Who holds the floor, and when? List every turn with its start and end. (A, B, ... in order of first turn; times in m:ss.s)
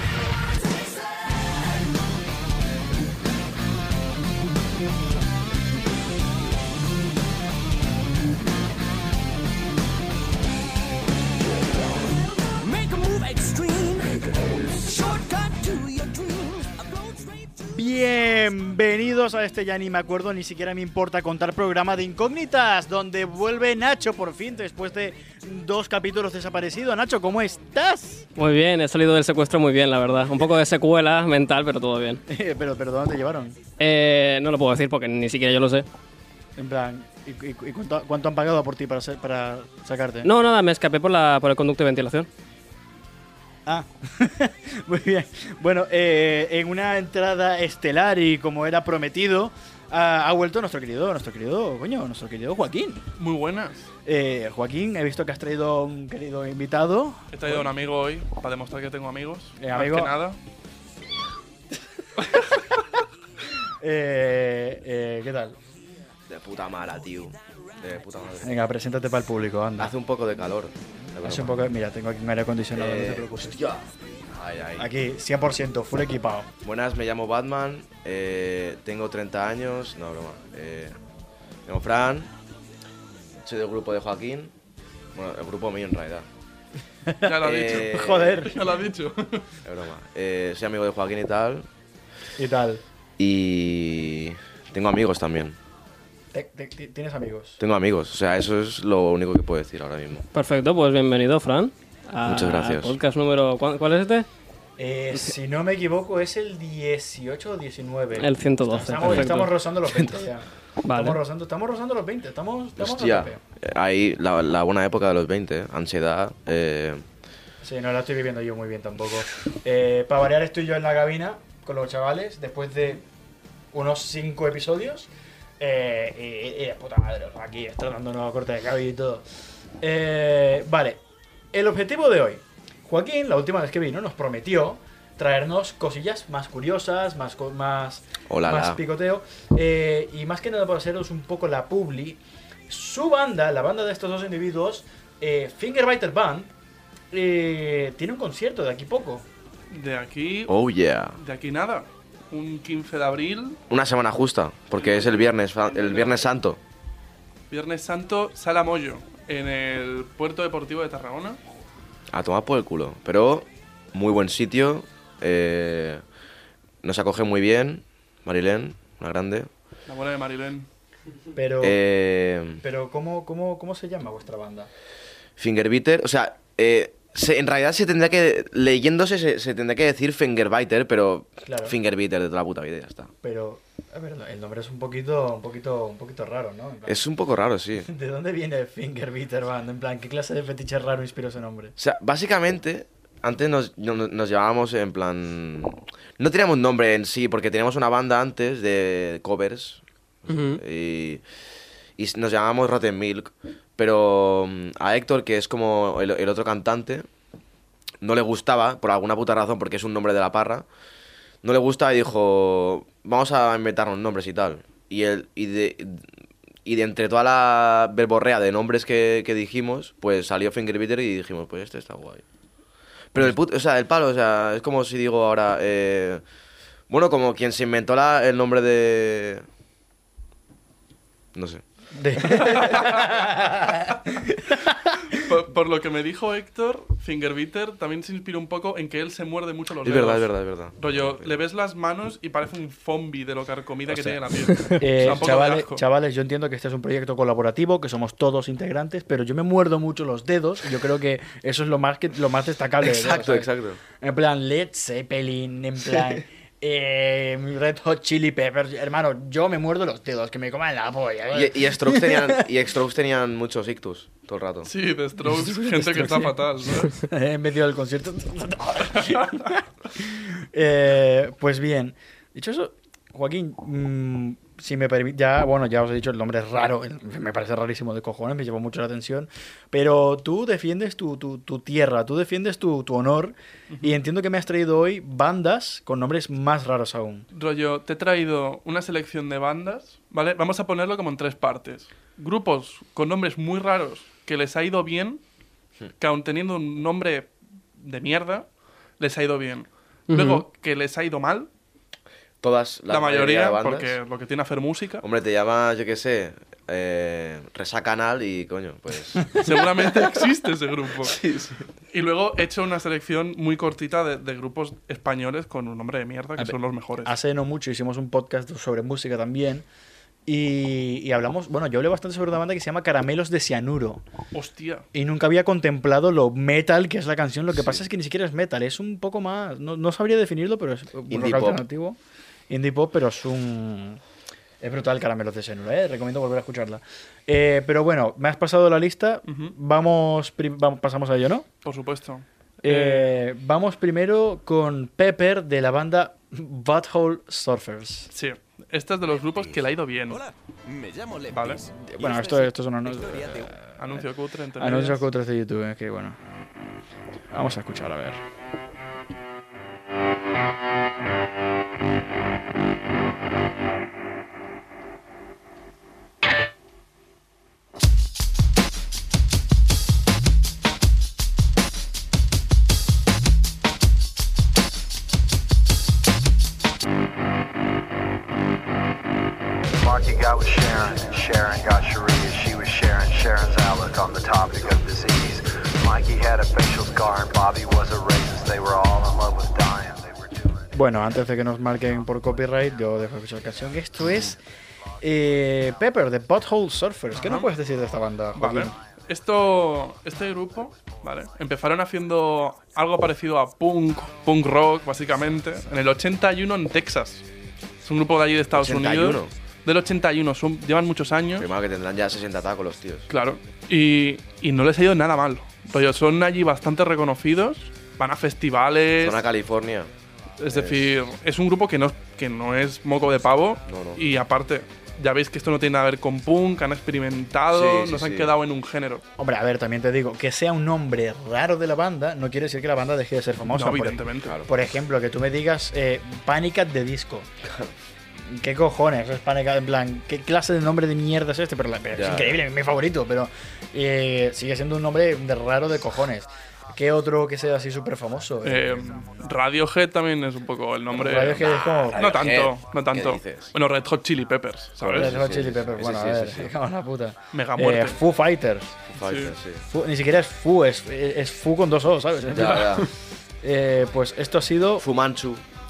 0:12.5-0:17.6 A
0:17.6-0:28.3 B
0:28.4-0:32.2 C
0:32.3-0:33.6 B
0:33.8-0:35.8 C
0:36.6-0:40.3 B
0:40.2-0:42.3 C
0:43.7-0:53.0 B
0:53.2-0:53.9 D
0:54.0-0:57.7 B
0:57.3-1:00.4 D
0:59.6-1:00.1 B
1:01.8-1:02.6 B
1:03.8-1:05.6 B
1:06.3-1:08.6 E
1:08.4-1:09.9 B
1:09.8-1:11.6 E
1:11.2-1:13.6 B
1:12.7-1:14.9 E
1:14.8-1:16.5 B
1:16.6-1:20.9 E
1:21.7-1:22.3 E
1:23.4-1:24.5 E
1:25.1-1:26.2 E
1:27.0-1:28.8 B
1:27.2-1:29.4 D
1:27.4-1:28.5 E
1:29.6-1:31.7 E
1:32.4-1:32.8 B
1:33.2-1:35.6 E
1:36.3-1:37.6 B
1:37.6-1:40.2 E
1:40.3-1:44.3 C
1:42.2-1:43.0 E
1:44.8-1:53.4 B
1:48.2-1:49.5 C
1:50.8-1:51.2 C
1:52.8-1:57.0 E
1:57.6-2:03.0 B
2:03.7-2:09.2 B
2:09.8-2:11.0 B
2:11.5-2:26.5 B
2:18.3-2:18.8 E
2:27.1-2:29.2 B
2:29.7-2:30.6 D
2:30.5-2:31.2 E
2:31.2-2:33.6 D
2:33.7-2:36.6 E
2:34.7-2:36.3 D
2:37.5-2:41.4 D
2:42.1-2:46.0 E
2:46.8-2:49.5 E
2:49.9-2:50.7 D
2:51.3-2:51.8 B
2:51.6-2:52.6 E
2:52.6-2:54.7 B
2:55.4-3:03.1 E
3:01.4-3:01.8 B
3:03.2-3:07.1 B
3:06.9-3:07.9 E
3:07.8-3:11.8 B
3:11.8-3:21.2 E
3:20.3-3:20.6 C
3:22.0-3:27.1 E
3:28.0-3:30.7 E
3:31.4-3:36.0 E
3:36.6-3:42.2 E
3:43.1-3:46.2 E
3:46.9-3:49.4 E
3:51.3-3:51.6 E
3:51.9-3:54.8 B
3:52.4-3:53.1 D
3:55.1-4:05.8 D
3:59.8-4:01.3 E
4:03.9-4:04.2 E
4:04.8-4:22.4 B
4:12.8-4:13.8 E
4:21.3-4:24.7 E
4:24.6-4:27.0 D
4:25.2-4:47.2 B
4:43.7-4:44.0 D
4:47.3-4:55.2 D
4:56.0-4:58.5 D
4:59.0-5:01.5 D
5:00.1-5:00.4 C
5:02.4-5:04.0 E
5:02.9-5:05.0 D
5:05.0-5:09.7 E
5:09.3-5:11.2 D
5:11.0-5:11.6 E
5:11.9-5:17.1 D
5:16.4-5:19.7 B
5:20.2-5:24.0 B
5:24.3-5:24.8 D
5:24.9-5:32.0 B
5:31.1-5:31.6 E
5:32.5-5:34.0 B
5:34.6-5:41.5 B
5:39.3-5:39.6 D
5:41.6-5:43.2 D
5:42.6-5:48.1 B
5:48.1-5:50.2 D
5:51.3-5:51.7 D
5:51.7-5:54.0 B
5:53.8-5:55.0 D
5:54.6-5:56.2 B
5:57.3-5:58.2 B
6:19.8-6:30.2 F
6:30.7-6:34.4 B
6:35.0-6:38.7 B
6:37.1-6:37.5 D
6:38.4-6:47.2 D
6:47.8-6:51.5 D
6:48.6-6:49.3 E
6:51.4-6:53.1 E
6:53.1-6:59.2 D
6:59.0-6:59.9 E
7:00.4-7:09.0 D
7:00.5-7:00.9 E
7:03.7-7:04.0 E
7:07.5-7:08.3 E
7:09.2-7:17.3 B
7:13.5-7:14.4 D
7:14.2-7:14.5 E
7:18.2-7:28.9 B
7:21.9-7:22.4 E
7:28.4-7:35.1 D
7:30.9-7:32.1 B
7:31.2-7:33.5 E
7:34.8-7:36.5 E
7:34.9-7:38.8 B
7:37.3-7:38.0 D
7:38.9-7:39.6 E
7:39.0-7:39.4 D
7:39.7-7:42.9 B
7:42.3-7:42.9 E
7:43.4-7:44.9 B
7:44.8-7:45.4 E